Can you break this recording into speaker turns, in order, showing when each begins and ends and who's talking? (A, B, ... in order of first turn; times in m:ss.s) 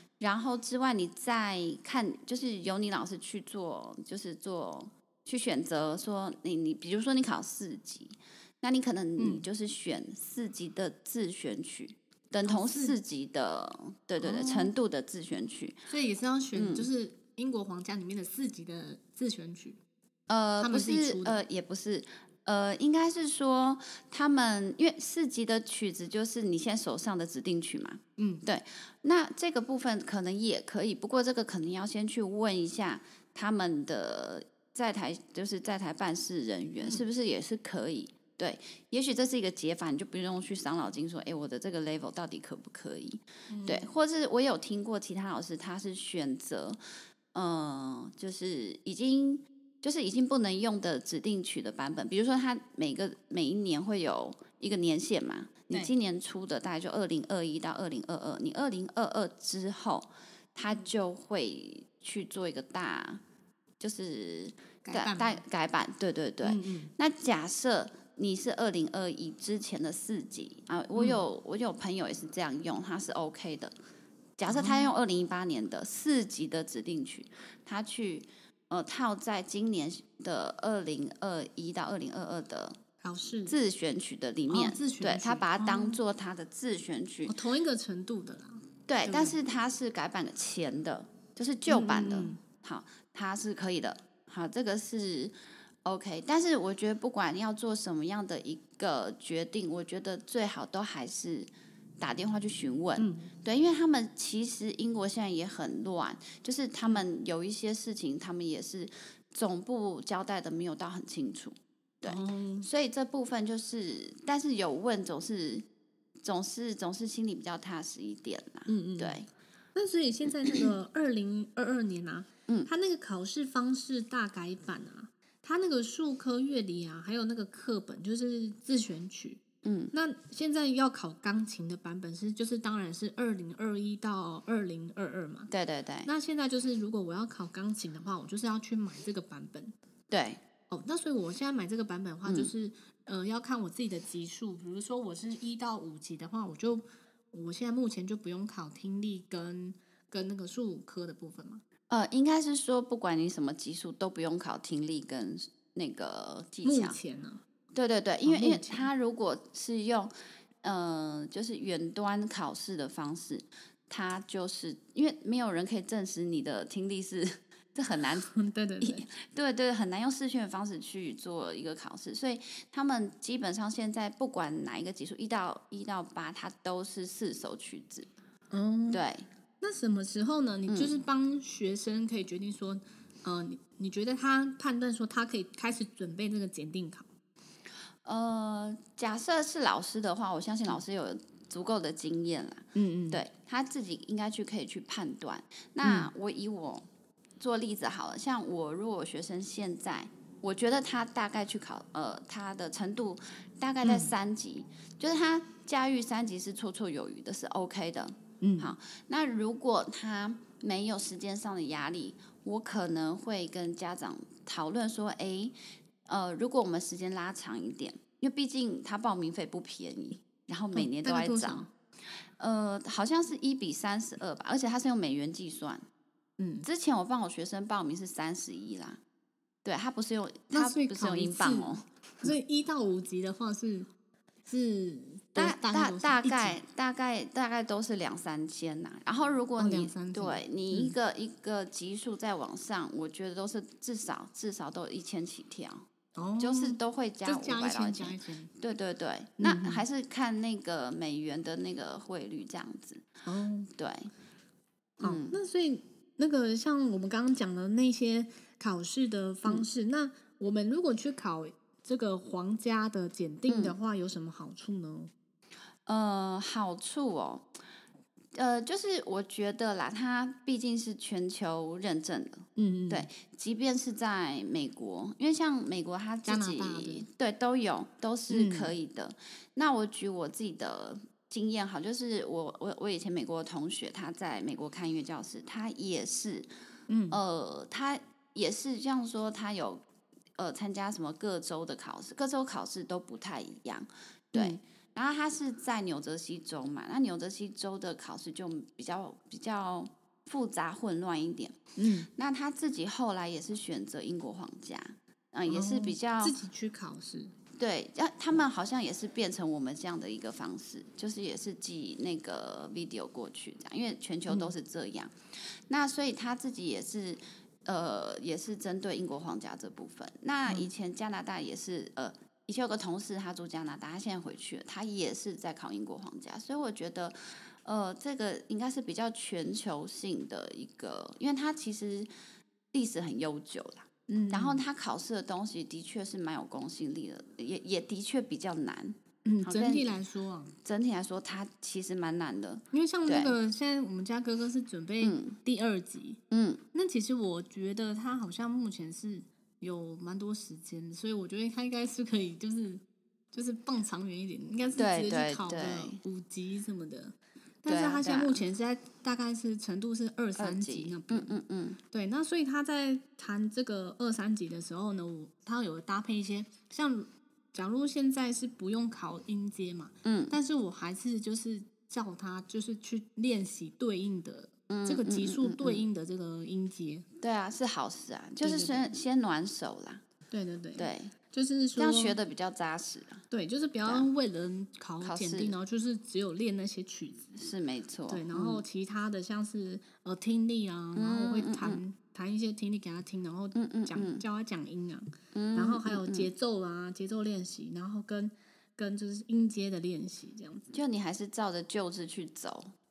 0:00.2-0:15.8 A
0:09.2-0:09.5 B
0:12.4-0:13.0 B
0:14.2-0:14.7 B
0:15.9-0:19.8 B
0:16.5-0:16.9 A
0:20.3-0:46.8 A
0:20.6-0:21.4 B
0:28.2-0:28.4 B
0:43.5-0:43.9 B
0:47.3-1:03.2 A
1:03.8-1:13.7 A
1:04.8-1:05.4 B
1:06.4-1:06.9 B
1:11.0-1:11.2 B
1:14.4-1:22.8 A
1:14.5-1:14.9 B
1:23.0-1:23.6 B
1:23.5-1:27.3 A
1:24.5-1:26.0 B
1:27.3-1:29.4 B
1:28.9-1:55.7 A
1:31.7-1:32.4 B
1:43.0-1:43.3 B
1:52.0-1:52.7 B
1:56.2-1:59.3 A
1:58.7-1:59.2 B
1:59.8-2:09.4 B
2:09.6-2:09.9 A
2:09.9-2:15.5 B
2:15.5-2:16.1 A
2:16.0-2:19.7 B
2:20.1-2:20.4 A
2:20.7-2:31.6 B
2:22.2-2:22.5 A
2:31.9-2:37.0 A
2:36.6-2:37.4 B
2:37.7-2:48.3 A
2:38.2-2:38.9 B
2:48.2-2:49.1 B
2:48.8-2:58.1 A
2:58.5-2:59.0 B
2:58.9-2:59.2 A
2:59.6-3:07.1 B
3:00.7-3:01.0 A
3:08.0-3:16.9 A
3:12.8-3:13.2 B
3:15.8-3:16.1 B
3:17.4-3:41.6 A
3:23.8-3:24.1 B
3:28.4-3:28.7 B
3:40.7-3:41.7 B
3:42.4-3:45.8 A
3:46.4-3:46.7 B
3:46.6-3:49.0 A
3:49.6-3:52.3 A
3:50.5-3:53.9 B
3:54.5-3:56.6 B
3:55.4-4:05.9 A
3:59.6-4:01.0 B
4:06.2-4:08.5 B
4:06.4-4:13.1 A
4:09.4-4:09.8 B
4:13.3-4:13.7 B
4:13.7-4:14.1 A
4:15.0-4:25.1 B
4:15.0-4:15.4 A
4:23.5-4:23.8 A
4:25.9-4:27.5 A
4:28.4-4:46.5 A
4:32.6-4:33.1 B
4:36.3-4:37.1 B
4:38.3-4:38.8 B
4:46.9-4:47.2 B
4:47.1-4:49.8 A
4:50.4-5:01.6 A
4:54.3-4:54.6 B
5:01.8-5:02.1 B
5:02.1-5:06.4 A
5:05.5-5:07.3 B
5:07.6-5:15.1 A
5:14.3-5:14.5 B
5:15.7-5:32.1 A
5:32.7-5:40.0 A
5:34.1-5:34.6 B
5:39.2-5:40.6 B
5:40.6-5:43.4 A
5:42.7-5:46.2 B
5:45.0-5:45.4 A
5:46.3-5:46.6 A
5:46.7-6:01.3 B
5:54.8-5:56.0 A
5:57.7-5:58.4 A
6:00.4-6:01.8 A
6:01.9-6:17.0 B
6:10.0-6:10.4 A
6:14.7-6:15.8 A
6:17.2-6:20.0 A
6:18.4-6:18.9 B
6:20.3-6:22.2 B
6:20.8-6:21.1 A
6:21.8-6:23.2 A
6:23.3-6:27.4 B
6:25.0-6:25.5 A
6:27.4-6:28.6 A
6:28.1-6:40.7 B
6:31.0-6:31.8 A
6:33.6-6:34.2 A
6:35.3-6:36.3 A
6:40.7-6:42.7 A